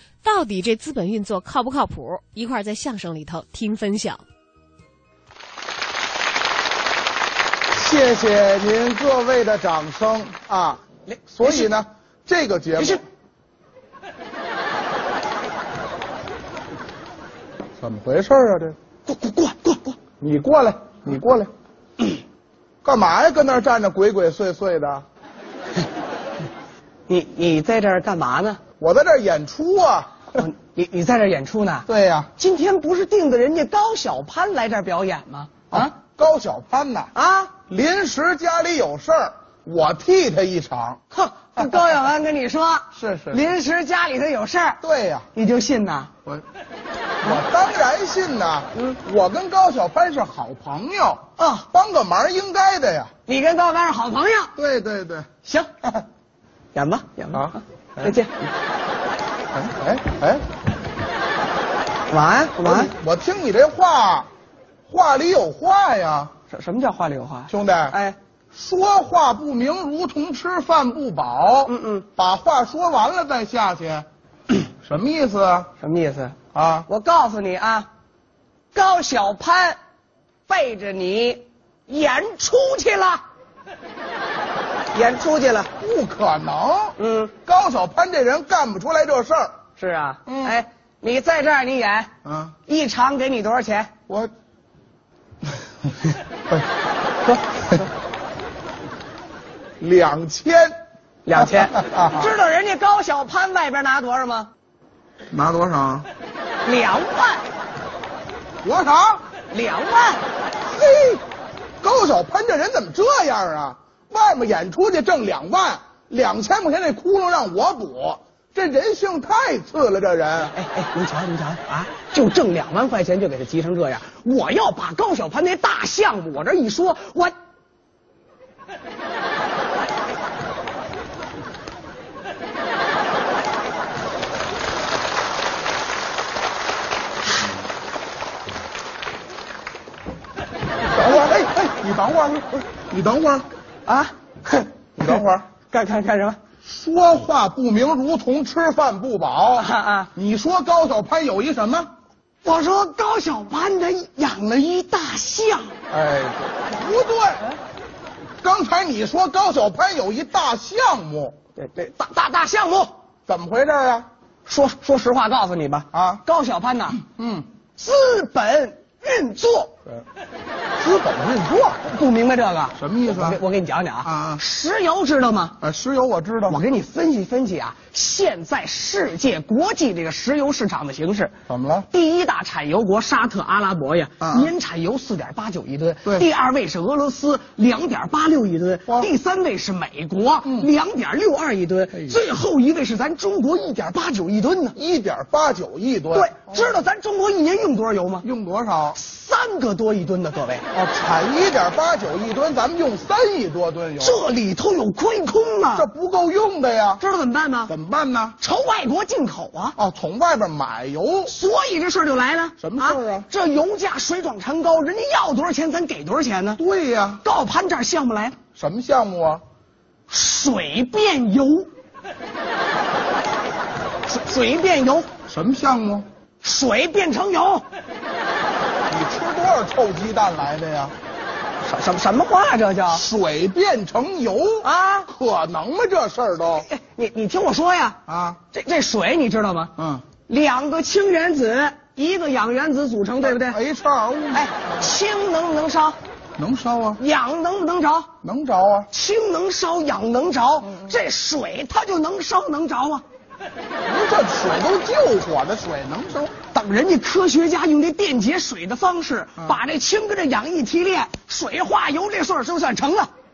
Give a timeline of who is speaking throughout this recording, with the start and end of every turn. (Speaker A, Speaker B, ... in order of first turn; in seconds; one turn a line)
Speaker A: 0.2-4.2
Speaker B: 7.7-10.8
Speaker C: 11.1-11.7
Speaker B: 11.3-13.0
Speaker B: 17.8-18.8
Speaker C: 19.1-20.0
Speaker B: 20.2-21.5
Speaker B: 22.8-25.0
Speaker C: 27.1-28.6
Speaker B: 28.8-30.4
Speaker C: 30.4-31.9
Speaker B: 31.9-32.3
Speaker C: 32.4-35.9
Speaker B: 35.7-41.0
Speaker C: 37.1-37.6
Speaker C: 41.1-44.8
Speaker B: 43.0-43.4
Speaker B: 44.8-45.3
Speaker C: 45.4-46.1
Speaker B: 47.2-53.1
Speaker C: 51.4-51.7
Speaker C: 53.3-54.5
Speaker B: 54.6-55.3
Speaker C: 55.4-55.7
Speaker C: 56.7-58.3
Speaker B: 57.3-58.2
Speaker B: 59.5-60.4
Speaker C: 62.1-62.9
Speaker B: 62.6-64.3
Speaker B: 64.9-66.3
Speaker C: 66.5-68.2
Speaker B: 67.5-68.0
Speaker B: 68.5-74.1
Speaker C: 71.7-72.1
Speaker B: 74.8-75.7
Speaker C: 75.8-76.4
Speaker B: 76.5-76.9
Speaker C: 76.9-77.9
Speaker C: 78.7-79.8
Speaker C: 80.5-83.2
Speaker C: 84.9-85.7
Speaker B: 85.8-89.6
Speaker C: 87.0-87.3
Speaker C: 89.8-92.1
Speaker B: 90.3-90.6
Speaker B: 92.2-92.5
Speaker C: 92.7-93.9
Speaker C: 97.3-97.8
Speaker B: 99.8-100.8
Speaker C: 101.3-104.5
Speaker B: 101.4-102.3
Speaker B: 105.3-106.1
Speaker C: 106.6-107.5
Speaker B: 108.6-109.2
Speaker C: 109.5-110.2
Speaker B: 110.6-111.2
Speaker B: 111.8-120.5
Speaker C: 120.5-127.3
Speaker B: 140.9-143.4
Speaker C: 143.9-145.2
Speaker B: 145.0-145.5
Speaker C: 145.7-146.4
Speaker B: 146.7-151.9
Speaker C: 149.6-150.1
Speaker C: 152.4-155.8
Speaker B: 155.9-157.5
Speaker B: 158.4-161.4
Speaker C: 161.6-163.0
Speaker B: 163.3-164.1
Speaker C: 164.5-167.0
Speaker B: 165.9-166.2
Speaker B: 167.1-167.5
Speaker C: 167.8-169.7
Speaker B: 170.8-171.8
Speaker C: 171.8-175.6
Speaker B: 172.8-173.4
Speaker B: 174.1-174.4
Speaker B: 175.6-176.6
Speaker C: 176.5-181.4
Speaker B: 181.5-181.9
Speaker C: 181.9-194.8
Speaker B: 184.2-184.5
Speaker B: 194.8-196.8
Speaker C: 196.1-198.3
Speaker B: 198.2-199.0
Speaker C: 198.9-200.7
Speaker B: 200.7-204.2
Speaker C: 204.0-205.9
Speaker B: 205.8-207.0
Speaker C: 207.0-207.7
Speaker B: 207.7-208.4
Speaker C: 208.4-209.8
Speaker B: 209.8-211.3
Speaker C: 211.3-216.6
Speaker B: 212.6-213.3
Speaker B: 216.6-217.2
Speaker C: 217.2-218.4
Speaker B: 218.6-219.4
Speaker C: 220.1-221.7
Speaker C: 224.1-225.1
Speaker B: 225.3-226.1
Speaker C: 226.4-227.7
Speaker B: 228.9-230.9
Speaker C: 231.6-233.0
Speaker B: 232.9-236.7
Speaker C: 234.6-235.1
Speaker C: 236.5-238.0
Speaker B: 238.1-238.4
Speaker C: 238.5-243.6
Speaker B: 239.8-240.1
Speaker B: 243.2-244.9
Speaker C: 244.3-246.0
Speaker B: 246.4-247.0
Speaker C: 247.0-248.1
Speaker B: 248.2-248.9
Speaker C: 248.9-253.0
Speaker B: 250.6-251.0
Speaker B: 253.9-256.4
Speaker C: 256.5-263.1